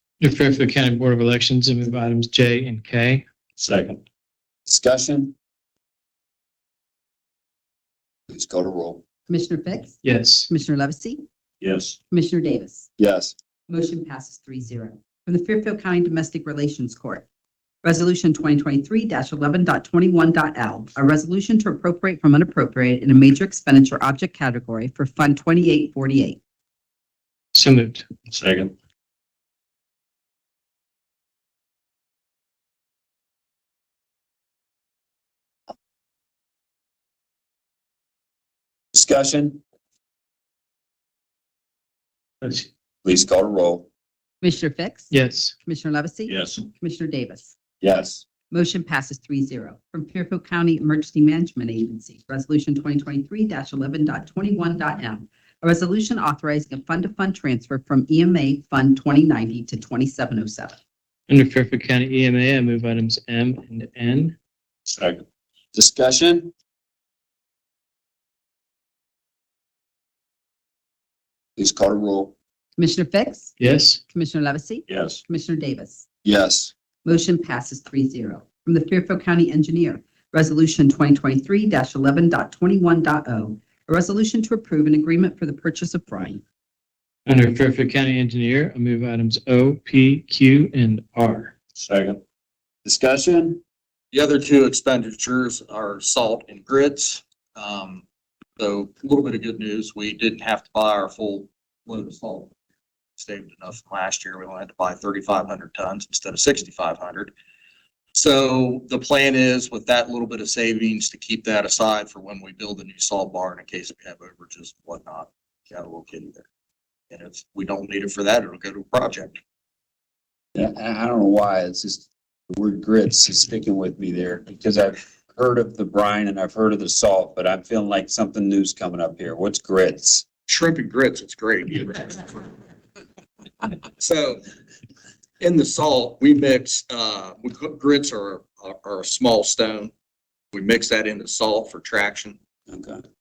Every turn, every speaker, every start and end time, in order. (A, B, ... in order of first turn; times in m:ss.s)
0:00.2-0:03.2 A
0:03.6-0:04.0 B
0:04.7-0:05.3 C
0:08.3-0:09.0 C
0:09.3-0:11.2 D
0:10.0-0:10.5 A
0:11.6-0:12.0 B
0:12.1-0:12.9 D
0:13.0-0:13.3 C
0:13.7-0:17.3 D
0:17.8-0:26.4 D
0:27.6-0:28.1 A
0:28.3-0:28.7 B
0:38.9-0:39.6 C
0:43.0-0:43.9 C
0:44.4-0:45.1 D
0:45.1-0:45.5 A
0:45.6-0:47.6 D
0:46.3-0:46.6 B
0:47.8-0:48.2 C
0:48.5-1:00.8 D
1:01.3-1:04.3 A
1:04.9-1:05.2 B
1:05.7-1:06.5 C
1:11.6-1:12.3 C
1:12.8-1:13.6 D
1:13.6-1:14.0 A
1:14.1-1:16.0 D
1:14.9-1:15.2 B
1:16.2-1:16.7 C
1:17.0-1:26.4 D
1:27.3-1:31.5 A
1:31.8-1:32.2 B
1:32.8-1:33.6 C
1:34.1-1:38.0 E
1:38.6-1:42.5 E
1:43.2-1:47.3 E
1:48.1-1:56.5 E
1:57.1-1:59.4 E
2:00.6-2:10.2 C
2:10.5-2:12.5 E
2:14.0-2:14.4 E
2:15.4-2:19.9 E
2:20.5-2:22.4 E
2:22.7-2:23.0 C